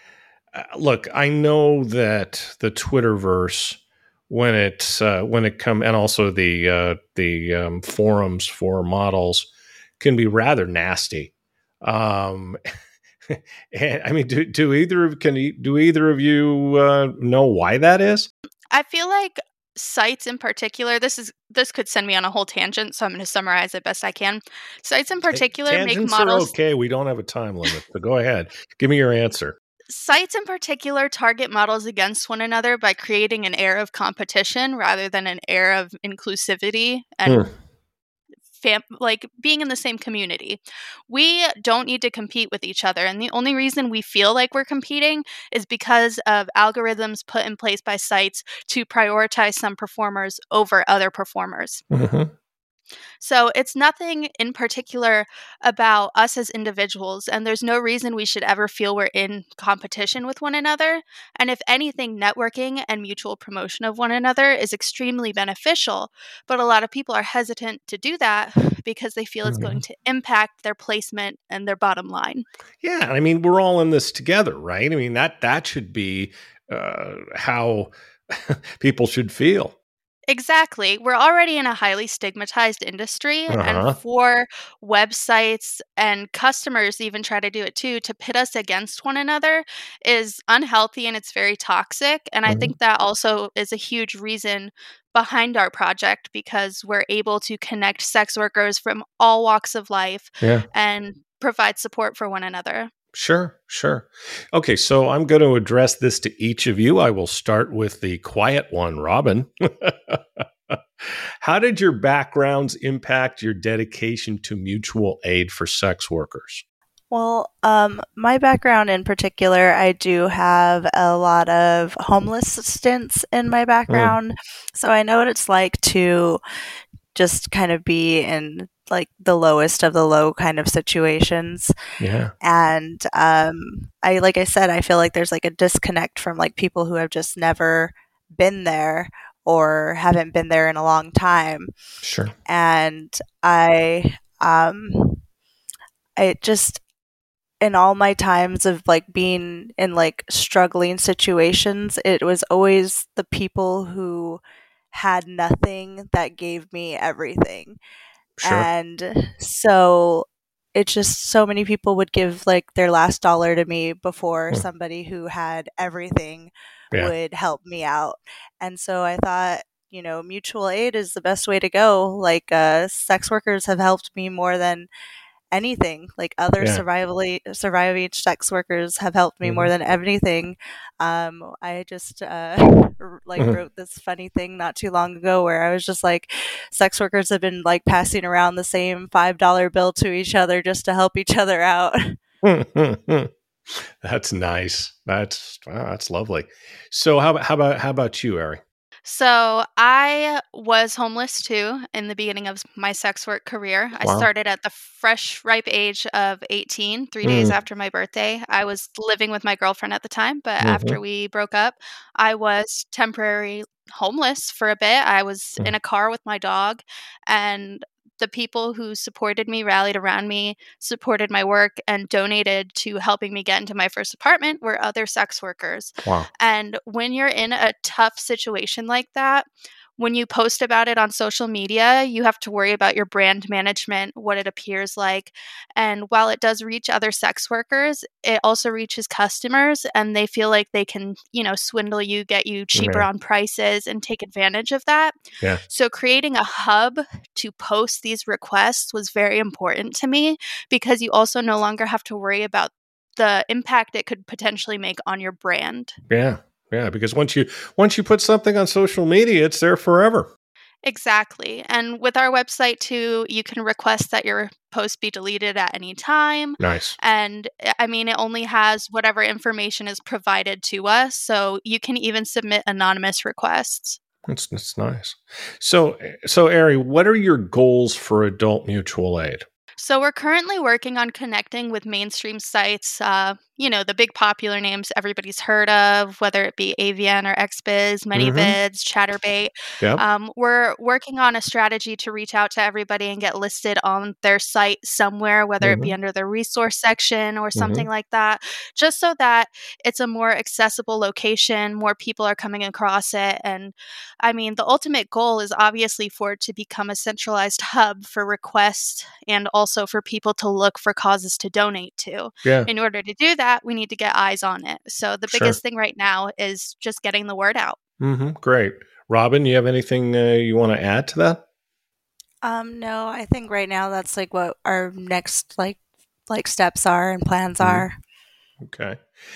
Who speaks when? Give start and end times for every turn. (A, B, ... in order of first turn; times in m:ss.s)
0:00.5-0:03.8 A
0:04.3-0:09.5 A
0:10.0-0:11.3 A
0:11.8-0:12.6 A
0:13.3-0:18.3 A
0:18.7-0:26.5 B
0:25.3-0:29.6 A
0:29.9-0:37.4 B
0:38.5-0:51.8 B
0:51.9-0:52.3 A
0:53.2-1:12.4 B
1:09.5-1:09.8 A
1:12.8-1:19.7 A
1:20.3-1:42.9 B
1:23.5-1:24.0 A
1:32.4-1:32.7 A
1:40.4-1:40.6 A
1:43.1-1:56.6 A
1:57.1-2:06.4 C
2:03.9-2:04.2 A
2:07.1-2:11.7 C
2:12.0-2:12.3 A
2:12.4-2:21.7 C
2:22.0-2:22.3 A
2:22.4-2:25.2 C
2:26.2-2:26.8 C
2:27.6-2:37.8 C
2:38.4-2:38.7 A
2:38.4-2:54.9 C
2:55.5-3:12.2 C
2:59.4-2:59.7 A
3:12.4-3:18.6 A
3:19.0-4:15.9 B
3:24.0-3:24.3 A
3:27.2-3:27.5 A
3:30.6-3:31.0 A
3:46.0-3:46.3 A
4:02.7-4:03.1 A
4:16.1-4:20.3 A
4:20.8-4:34.0 B
4:26.6-4:27.0 A
4:34.3-4:39.4 A
4:39.8-5:17.8 B
4:48.1-4:48.6 A
4:55.6-4:55.9 A
4:57.6-4:57.9 A
5:12.4-5:12.7 A
5:15.3-5:15.6 A
5:18.0-5:21.4 A
5:22.4-5:28.0 C
5:27.6-5:27.9 A
5:28.6-5:29.0 A